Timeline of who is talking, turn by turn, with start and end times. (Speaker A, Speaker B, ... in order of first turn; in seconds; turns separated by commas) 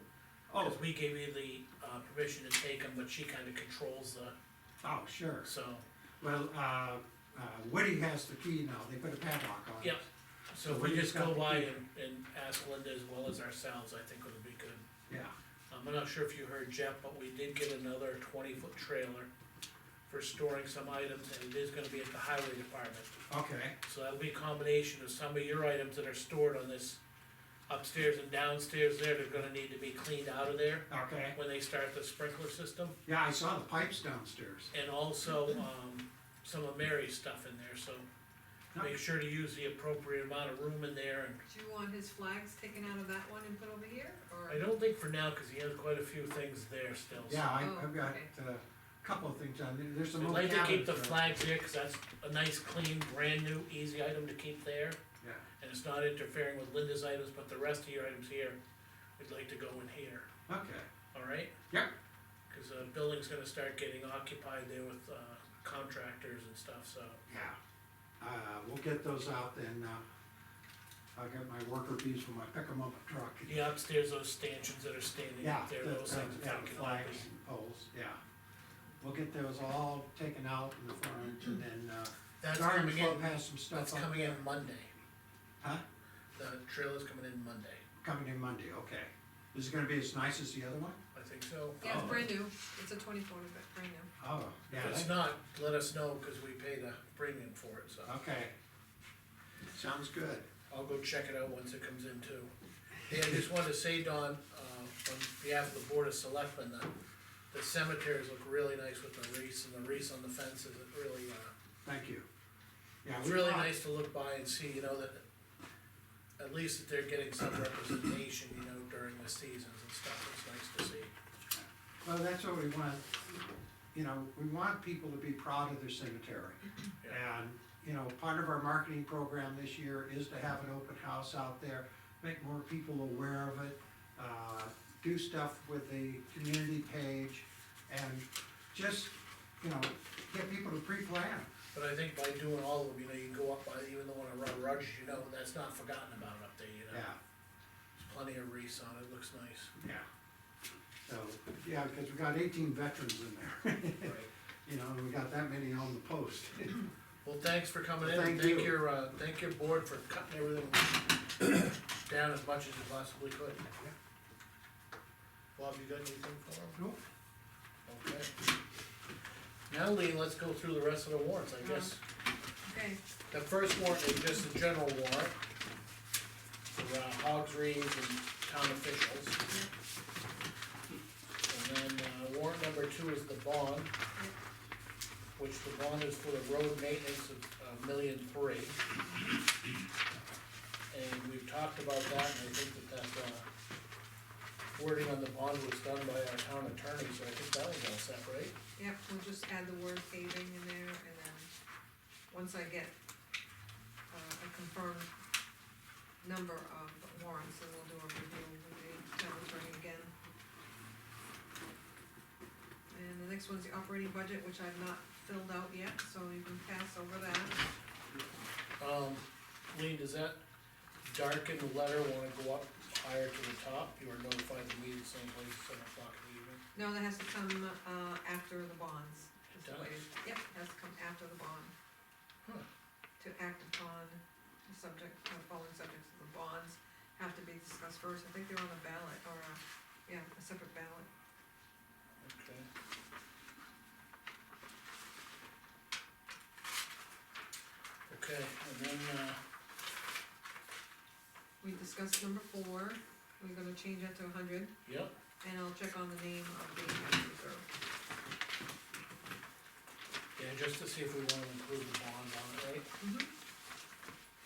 Speaker A: 0.5-0.8, Speaker B: 0.6-4.3, Speaker A: 4.8-5.5, Speaker B: 5.5-5.8, Speaker A: 6.2-10.1, Speaker B: 9.8-14.8, Speaker A: 10.7-11.7, Speaker A: 15.1-15.3, Speaker B: 15.7-19.3, Speaker B: 20.1-23.1, Speaker A: 23.3-23.8, Speaker B: 23.8-27.0, Speaker B: 27.7-33.0, Speaker A: 30.9-31.4, Speaker A: 33.1-34.7, Speaker B: 34.7-38.1, Speaker B: 38.8-41.4, Speaker C: 41.5-44.6, Speaker B: 44.5-47.6, Speaker A: 47.2-51.3, Speaker C: 47.6-48.3, Speaker B: 50.2-55.0, Speaker B: 55.6-58.6, Speaker B: 59.2-60.3, Speaker A: 60.5-60.9, Speaker B: 61.1-61.5, Speaker B: 62.5-67.2, Speaker A: 67.3-67.6, Speaker A: 68.2-70.0, Speaker A: 71.2-73.6, Speaker B: 73.5-77.3, Speaker A: 75.4-78.2, Speaker A: 79.0-84.4, Speaker B: 82.4-84.9, Speaker B: 86.4-87.8, Speaker A: 88.0-91.0, Speaker B: 91.1-92.3, Speaker C: 91.8-94.1, Speaker A: 91.8-92.3, Speaker A: 94.2-95.1, Speaker B: 94.7-98.2, Speaker A: 98.0-98.5, Speaker A: 99.7-100.5, Speaker B: 100.7-102.5, Speaker B: 103.1-106.9, Speaker B: 107.5-111.5, Speaker A: 111.8-112.3, Speaker A: 113.0-113.7, Speaker B: 113.2-115.2, Speaker B: 116.4-121.1, Speaker A: 121.5-123.2, Speaker A: 123.9-141.5, Speaker B: 141.7-147.1, Speaker A: 146.9-147.2, Speaker B: 148.0-149.7, Speaker A: 149.8-150.1, Speaker A: 151.0-156.8, Speaker B: 154.0-154.3, Speaker B: 157.2-163.7, Speaker A: 158.0-158.8, Speaker B: 165.6-166.8, Speaker A: 166.8-167.0, Speaker B: 167.9-168.3, Speaker B: 169.7-172.0, Speaker C: 171.6-171.9, Speaker C: 172.7-173.0, Speaker B: 173.3-175.4, Speaker B: 176.7-179.4, Speaker B: 181.5-183.9, Speaker B: 185.4-188.8, Speaker B: 190.9-193.5, Speaker B: 194.8-198.6, Speaker C: 198.8-201.5, Speaker C: 202.3-202.9, Speaker C: 204.1-205.1, Speaker C: 206.2-210.1, Speaker C: 212.9-217.7, Speaker B: 218.8-220.4, Speaker B: 221.0-226.6, Speaker C: 226.8-231.7, Speaker B: 229.5-230.1, Speaker C: 233.2-241.1, Speaker B: 242.2-242.7, Speaker B: 248.1-249.4, Speaker C: 251.6-254.8, Speaker B: 254.8-255.1, Speaker C: 255.4-257.7, Speaker B: 260.4-262.9, Speaker C: 263.0-263.3